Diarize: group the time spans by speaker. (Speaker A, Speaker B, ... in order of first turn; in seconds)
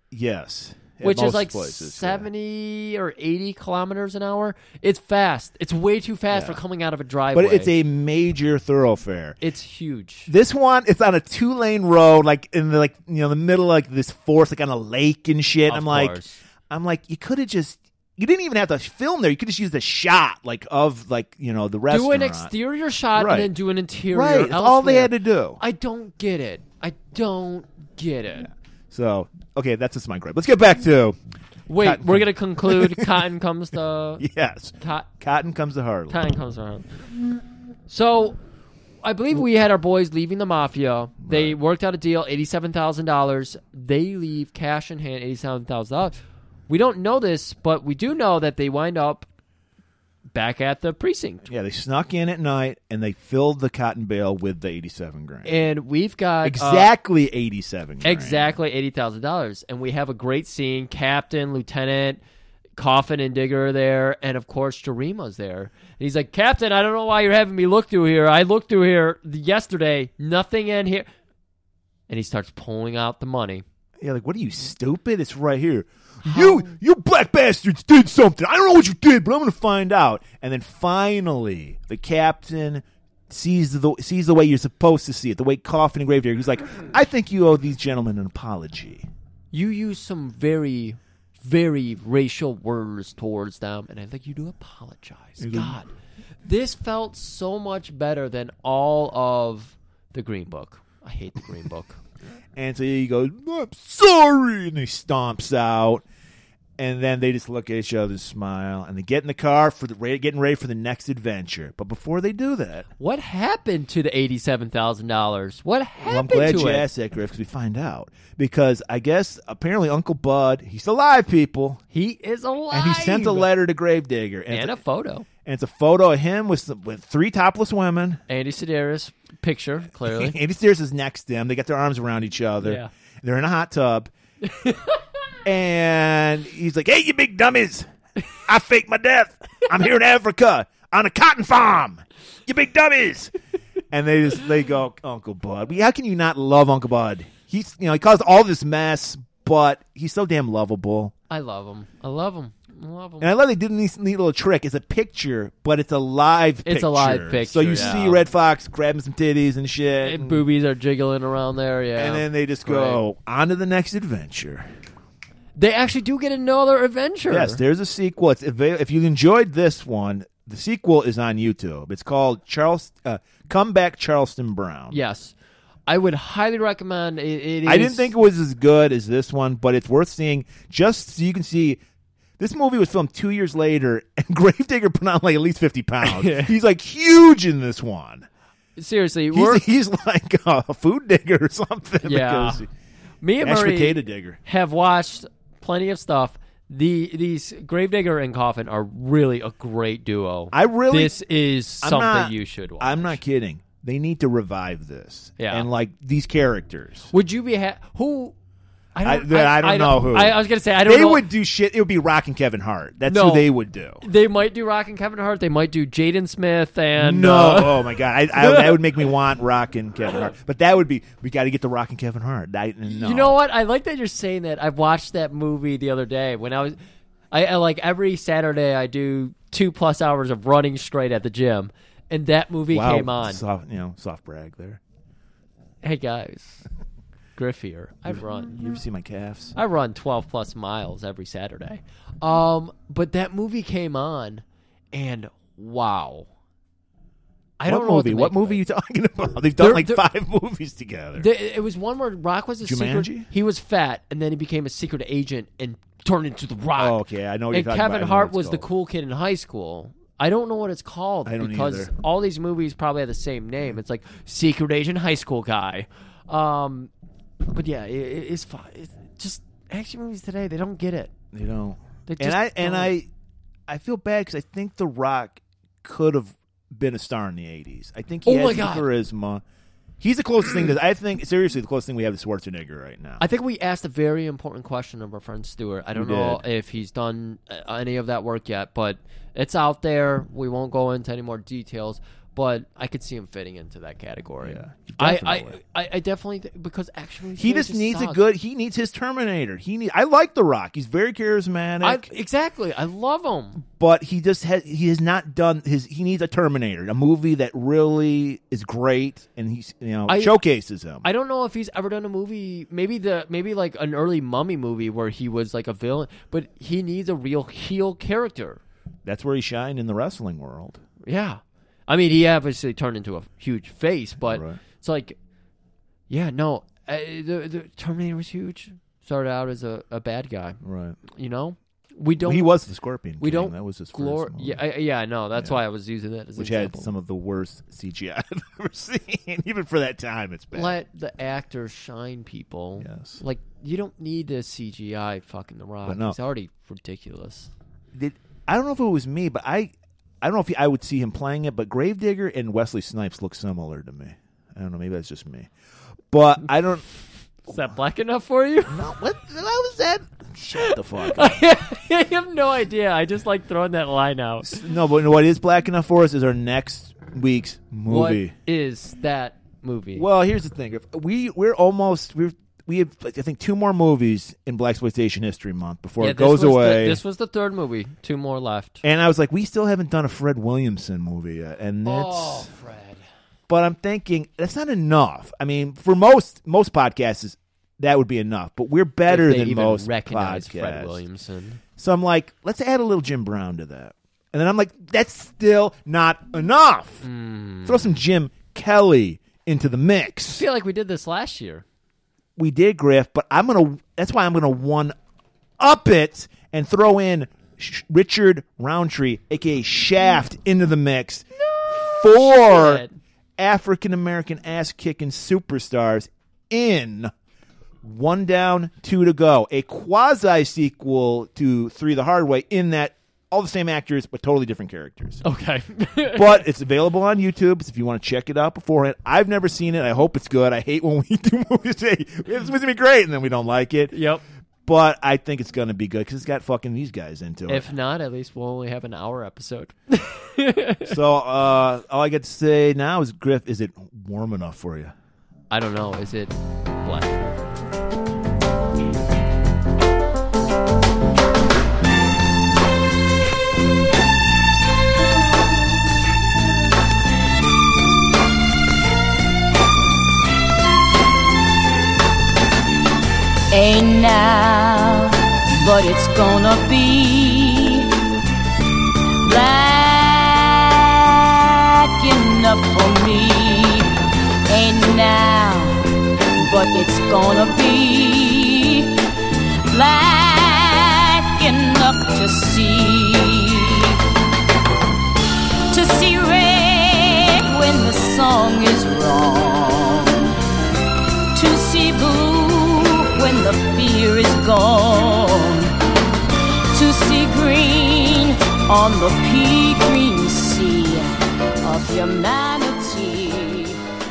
Speaker A: 0.1-2.3, 6.3-6.6, 7.3-9.4, 10.3-16.2, 16.7-22.5, 23.1-23.5, 24.1-25.6, 28.9-31.2, 31.8-33.2, 34.2-36.2, 41.2-41.6, 51.4-55.6, 56.4-58.5, 74.0-89.1, 95.4-95.8, 102.5-106.0, 106.8-112.9, 116.0-121.8, 122.7-124.8, 125.4-128.2, 130.1-134.1, 135.4-137.9, 138.4-143.3, 143.9-151.1, 153.2-160.4, 161.9-164.7, 167.3-175.0, 177.6-181.8, 182.4-188.3, 189.3-192.7, 193.4-194.4, 200.5-201.2, 201.8-207.1, 209.0-214.0, 216.9-223.4, 232.7-234.8, 238.1-239.5, 247.7-251.3, 252.6-253.3, 256.7-258.6, 261.2-261.9, 271.3-273.1, 273.7-279.4, 280.0-283.2, 285.9-286.4, 294.4-295.6, 297.4-302.1, 303.8-311.1, 319.0-320.8, 324.2-324.6, 330.6-331.0, 332.2-334.6, 335.4-335.6, 336.4-340.8, 342.8-343.2, 345.8-346.2, 347.9-355.5, 356.1-356.8, 358.7-361.4, 364.4-368.3, 369.9-377.0, 378.8-382.5, 383.5-391.0, 391.8-397.0, 397.6-400.4, 402.4-404.9, 405.6-412.8, 413.4-417.1, 417.8-425.2, 426.1-433.9, 434.6-437.7, 440.9-444.9
Speaker B: 1.0-7.7, 9.4-10.3, 15.7-16.4, 21.9-28.5, 31.7-34.2, 34.8-35.1, 36.1-36.9, 37.9-38.4, 39.0-46.1, 46.7-49.2, 50.3-51.5, 55.4-56.9, 58.0-62.2, 62.8-71.1, 72.1-73.6, 76.2-76.7, 89.5-95.9, 96.4-102.0, 113.0-116.9, 121.9-123.5, 124.5-125.2, 128.3-130.4, 132.6-132.9, 134.4-135.0, 151.3-153.3, 156.6-158.2, 160.0-163.0, 165.6-167.6, 174.9-175.3, 175.9-178.1, 186.0-186.5, 188.8-189.6, 192.0-192.6, 193.2-203.2, 205.4-205.7, 207.1-208.3, 208.9-211.2, 213.1-218.8, 222.9-226.8, 227.3-233.4, 235.8-236.6, 237.4-238.6, 239.5-246.3, 247.6-248.6, 249.6-250.0, 251.2-257.0, 257.5-266.9, 267.5-271.1, 272.1-272.9, 278.2-278.9, 283.2-298.2, 301.8-303.6, 310.1-310.4, 311.0-318.6, 321.0-325.1, 326.1-332.5, 333.2-336.9, 340.5-347.5, 357.5-358.8, 360.6-364.6, 367.9-370.1, 376.0-378.8, 381.8-383.0, 389.1-391.6, 397.0-398.0, 400.3-401.6, 411.4-413.0, 425.2-426.4, 433.9-434.2, 437.5-440.9, 445.5-447.4
Speaker C: 463.5-467.9, 469.2-473.9, 474.5-475.8, 476.4-478.9, 479.7-484.0, 485.7-490.3, 491.3-495.7, 496.7-501.1, 501.6-503.8